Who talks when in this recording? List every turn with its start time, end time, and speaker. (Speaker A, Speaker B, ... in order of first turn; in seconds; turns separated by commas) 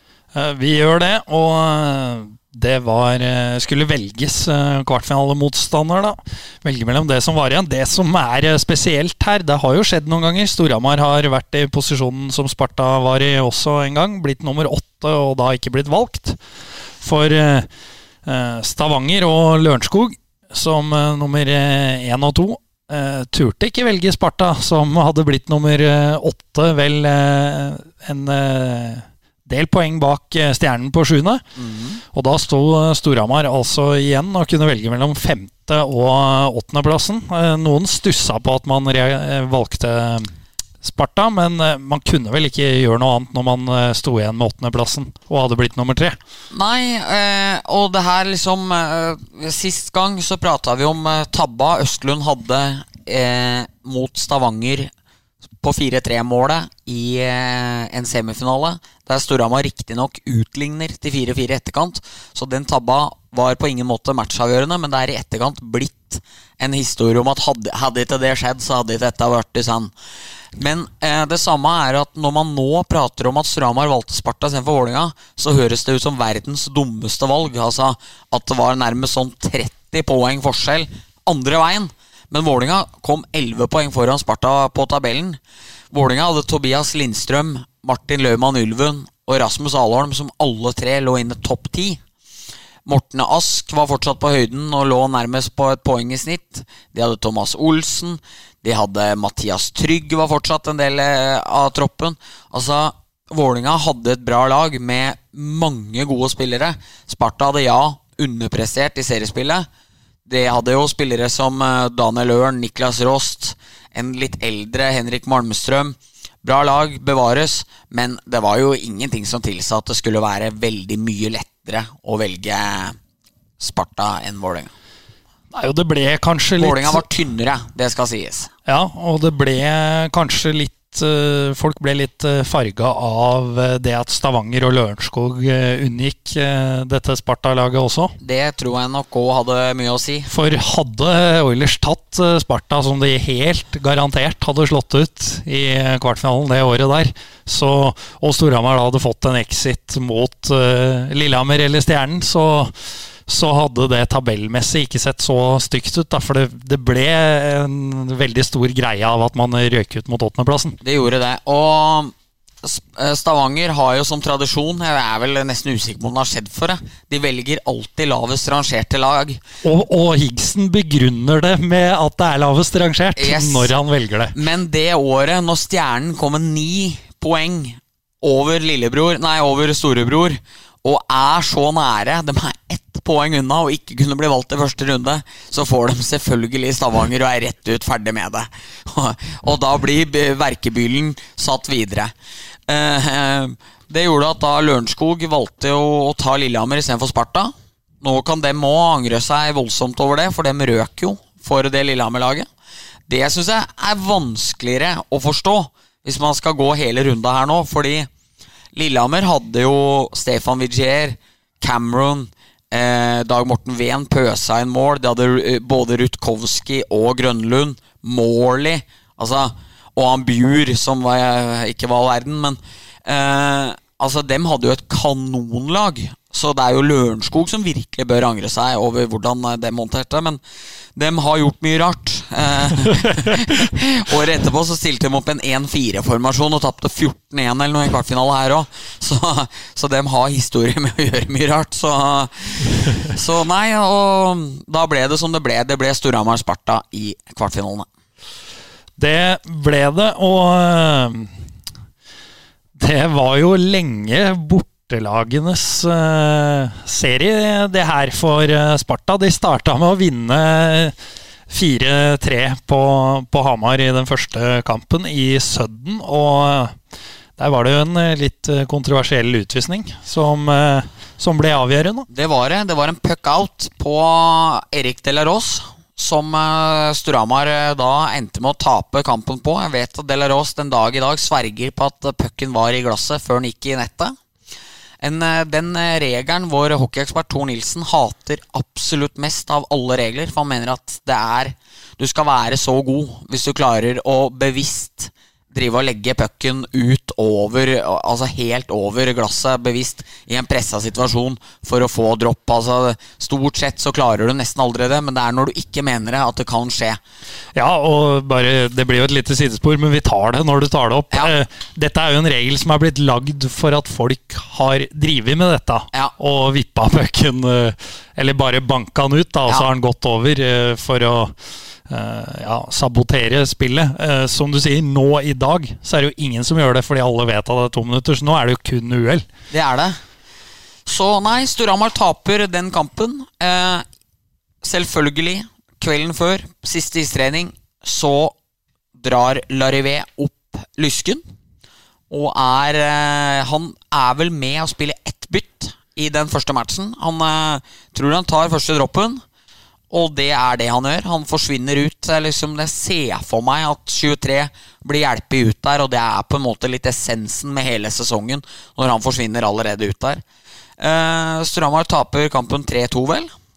Speaker A: 0.3-16.4, Speaker A: 17.0-17.7, Speaker A: 18.2-31.4, Speaker B: 31.6-32.0, Speaker A: 32.1-46.2, Speaker B: 46.5-54.9, Speaker B: 55.6-69.9, Speaker B: 70.5-85.4, Speaker B: 85.9-92.0, Speaker B: 92.9-109.7, Speaker B: 110.3-123.0, Speaker B: 123.6-124.7, Speaker A: 125.5-127.0, Speaker B: 126.6-128.5, Speaker A: 128.7-138.2, Speaker B: 138.2-140.3, Speaker A: 140.3-152.7, Speaker A: 153.3-160.8, Speaker B: 160.8-169.4, Speaker A: 169.6-174.3, Speaker B: 173.2-173.7, Speaker B: 174.3-192.1, Speaker B: 192.7-202.4, Speaker B: 203.1-208.1, Speaker B: 208.7-230.4, Speaker B: 230.9-247.9, Speaker A: 249.0-251.3, Speaker A: 252.8-260.9, Speaker A: 261.5-266.8, Speaker A: 267.4-272.1, Speaker B: 272.1-284.1, Speaker B: 285.0-307.0, Speaker A: 307.6-321.3, Speaker A: 321.9-329.3, Speaker B: 329.5-330.0, Speaker B: 330.9-333.8, Speaker B: 334.6-338.3, Speaker B: 339.0-341.2, Speaker B: 342.1-349.2, Speaker B: 349.9-360.2, Speaker B: 360.8-363.3